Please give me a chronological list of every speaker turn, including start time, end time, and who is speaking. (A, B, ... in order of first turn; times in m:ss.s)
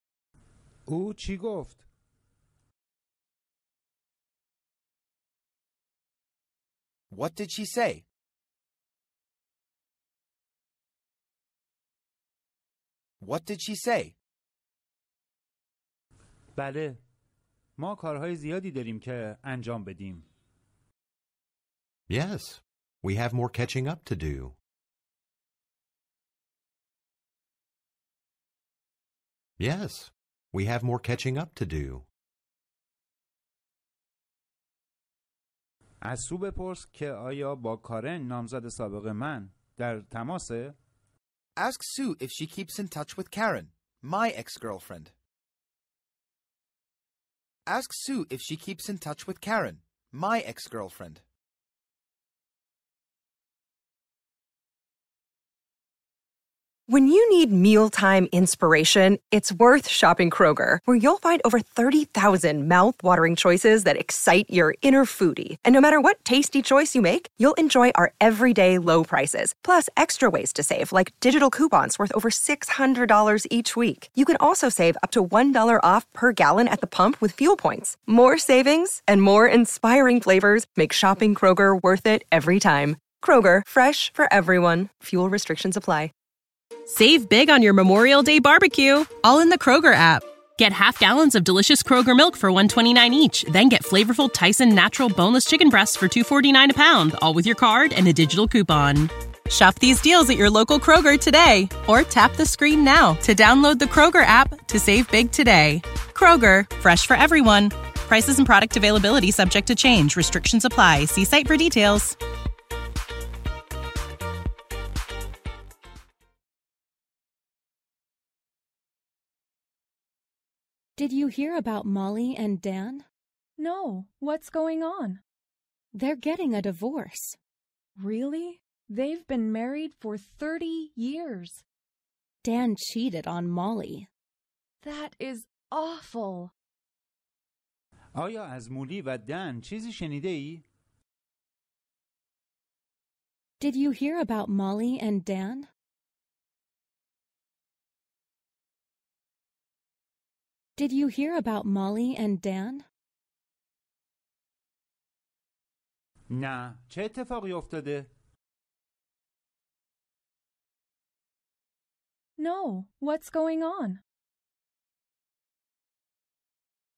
0:00.9-0:01.8 A
0:07.1-0:08.0 B
0:13.2-0:14.1 B
0:16.6-0:17.0 A
0:17.8-0:20.2 A
0:22.1-0:24.6 C
0:29.6-0:32.0 C
0:36.0-0:40.8 A
0:41.6-0:45.1 B
0:47.7-0:51.2 B
0:56.9-1:26.1 D
1:26.9-1:52.2 E
2:01.0-2:03.0 F
2:03.6-2:05.2 G
2:05.9-2:07.4 F
2:08.0-2:11.6 G
2:12.4-2:14.1 F
2:14.8-2:16.5 G
2:18.2-2:20.6 A
2:23.6-2:25.7 F
2:30.8-2:32.8 F
2:36.3-2:38.1 A
2:42.4-2:44.0 G